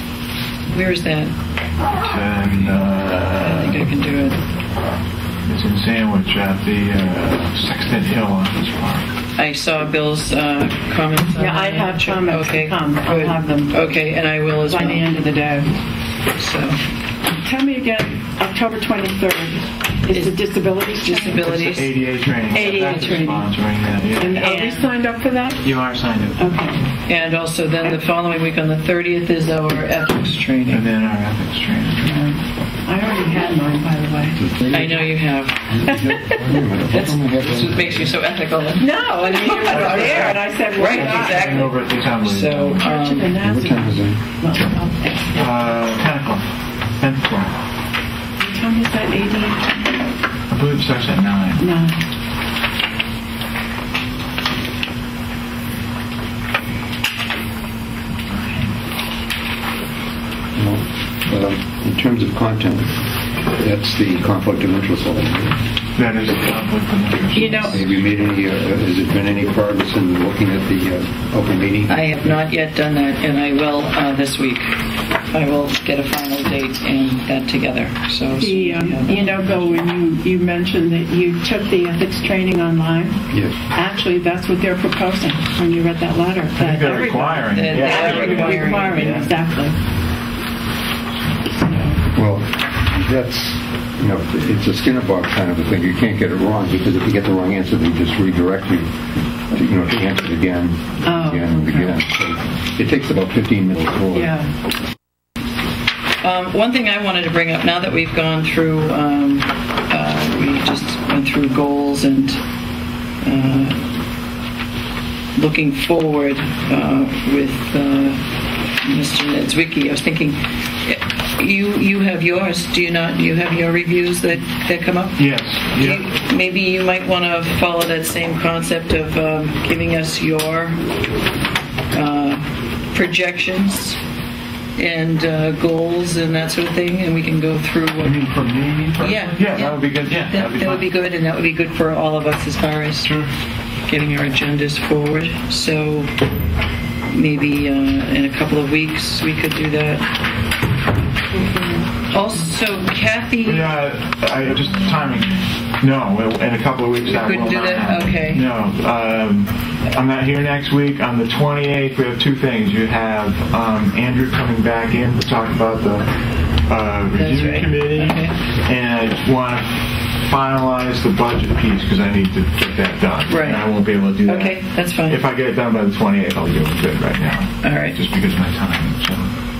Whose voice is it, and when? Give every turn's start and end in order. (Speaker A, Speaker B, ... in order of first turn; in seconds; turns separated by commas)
Speaker A: 0.7-1.3, Speaker B: 2.0-3.9, Speaker A: 3.4-4.4, Speaker B: 5.5-9.1, Speaker A: 9.3-15.1, Speaker C: 11.3-14.1, Speaker C: 14.6-15.7, Speaker A: 16.4-16.8, Speaker C: 17.3-21.6, Speaker A: 20.1-20.4, Speaker A: 21.0-21.9, Speaker B: 21.4-24.4, Speaker C: 22.5-23.5, Speaker A: 22.8-23.2, Speaker C: 24.2-25.7, Speaker A: 24.3-24.9, Speaker B: 25.6-26.5, Speaker C: 26.4-26.9, Speaker A: 27.1-30.9, Speaker B: 30.7-32.2, Speaker C: 32.0-34.4, Speaker D: 34.3-35.1, Speaker A: 34.7-35.8, Speaker D: 35.7-38.1, Speaker C: 35.9-36.5, Speaker A: 36.9-43.4, Speaker C: 38.8-41.8, Speaker B: 39.7-42.9, Speaker C: 42.8-45.7, Speaker D: 43.4-44.2, Speaker B: 45.3-46.5, Speaker B: 47.0-47.5, Speaker C: 48.4-49.8, Speaker B: 50.5-51.6, Speaker C: 51.6-52.0, Speaker D: 60.5-65.6, Speaker B: 66.0-68.1, Speaker C: 67.3-67.8, Speaker D: 67.7-72.1, Speaker A: 71.9-74.7, Speaker A: 75.3-79.6, Speaker C: 78.4-89.8, Speaker D: 83.3-83.6, Speaker B: 86.6-89.3, Speaker A: 87.5-89.3, Speaker C: 91.5-92.0, Speaker D: 92.1-98.9, Speaker D: 99.5-104.3, Speaker C: 101.0-102.0, Speaker C: 104.1-104.5, Speaker A: 106.2-112.4, Speaker A: 113.2-113.9, Speaker A: 115.4-118.2, Speaker A: 118.8-130.8, Speaker B: 125.2-126.0, Speaker A: 131.9-134.0, Speaker A: 134.8-138.2, Speaker B: 138.0-140.9, Speaker A: 139.0-143.2, Speaker B: 143.0-143.3, Speaker A: 143.9-146.1, Speaker A: 147.1-150.1, Speaker C: 151.4-151.8, Speaker A: 152.1-153.7, Speaker B: 153.4-166.1, Speaker A: 157.1-158.5, Speaker B: 166.7-179.3, Speaker A: 167.2-168.3, Speaker A: 173.3-173.7, Speaker A: 174.2-175.2, Speaker A: 177.6-178.0